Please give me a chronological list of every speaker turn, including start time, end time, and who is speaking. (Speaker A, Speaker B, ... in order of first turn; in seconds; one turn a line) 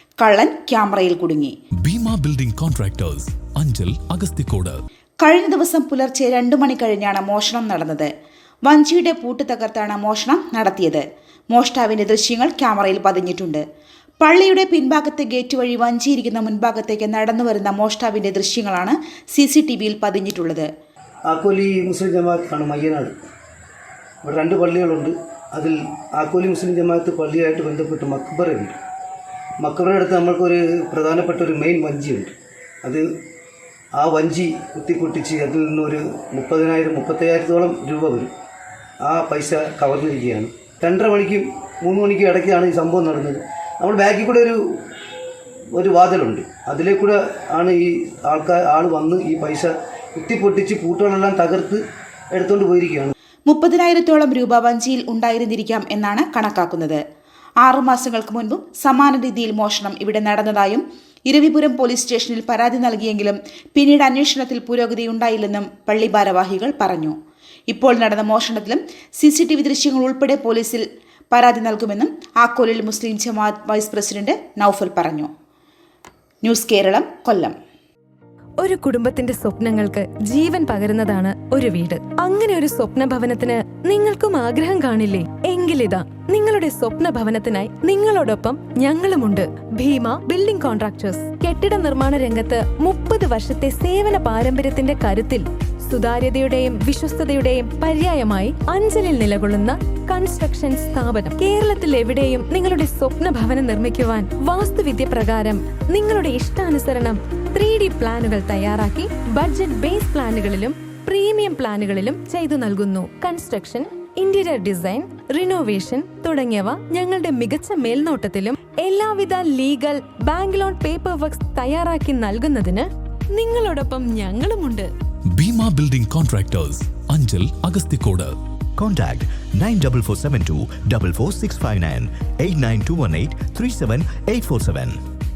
Speaker A: 0.2-1.5
Speaker B: 1.9-4.8
Speaker A: 5.2-8.1
Speaker A: 8.6-13.6
Speaker A: 14.2-20.7
Speaker C: 21.3-23.1
Speaker C: 24.2-28.7
Speaker C: 29.6-32.3
Speaker C: 34.0-38.3
Speaker C: 39.0-44.6
Speaker C: 45.7-51.8
Speaker C: 52.3-53.1
Speaker A: 53.5-57.0
Speaker A: 57.6-67.2
Speaker A: 67.7-75.3
Speaker A: 76.4-77.5
Speaker D: 78.6-124.9
Speaker B: 125.3-128.3
Speaker E: 128.8-135.0